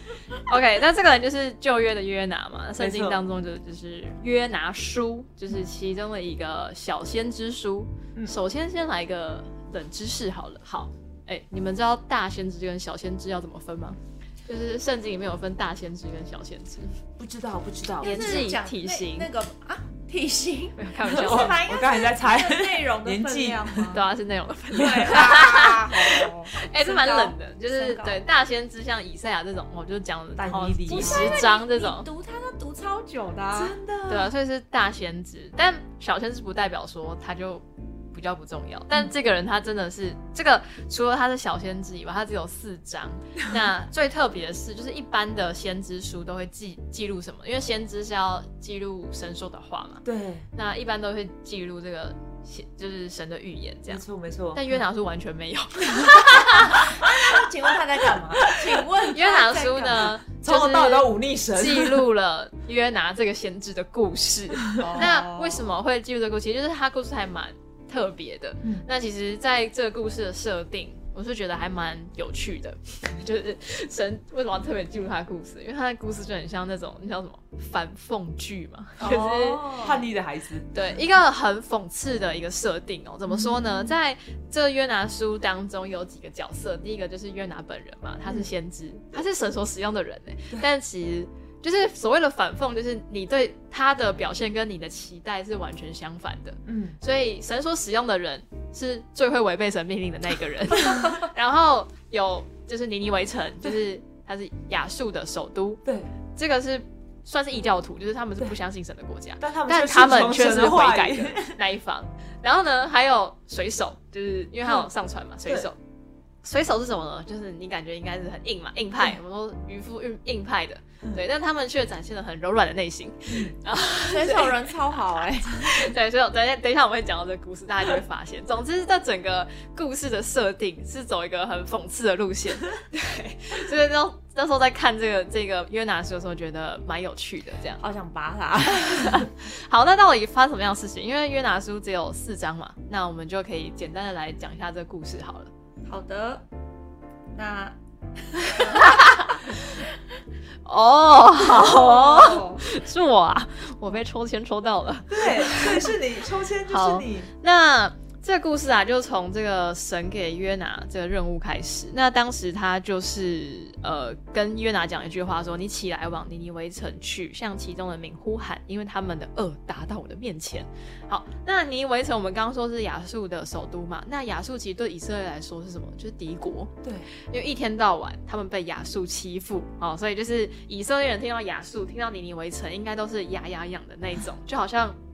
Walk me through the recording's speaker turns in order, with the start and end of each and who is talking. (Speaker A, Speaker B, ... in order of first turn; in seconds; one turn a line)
Speaker A: 0.4-17.0
Speaker B: 2.8-3.2
Speaker B: 17.2-18.5
Speaker A: 18.0-19.3
Speaker C: 18.0-24.0
Speaker A: 20.8-21.6
Speaker B: 21.1-24.0
Speaker A: 23.9-32.1
Speaker B: 24.7-25.4
Speaker C: 24.7-28.2
Speaker B: 30.4-31.4
Speaker C: 30.9-33.7
Speaker B: 33.5-34.3
Speaker A: 34.1-54.0
Speaker B: 50.0-50.5
Speaker B: 53.9-54.8
Speaker A: 54.5-57.0
Speaker C: 56.6-60.1
Speaker A: 59.1-79.8
Speaker B: 60.3-62.1
Speaker C: 64.8-65.7
Speaker C: 79.0-80.0
Speaker B: 79.8-80.7
Speaker A: 80.7-105.8
Speaker B: 83.3-83.9
Speaker B: 96.7-97.0
Speaker A: 106.3-115.8
Speaker B: 109.4-111.5
Speaker A: 116.4-137.8
Speaker C: 124.0-125.8
Speaker C: 137.8-139.2
Speaker A: 138.7-145.5
Speaker C: 145.8-146.4
Speaker C: 147.3-149.1
Speaker A: 148.6-149.6
Speaker A: 150.6-155.9
Speaker C: 151.4-152.6
Speaker B: 155.1-157.3
Speaker A: 156.7-185.0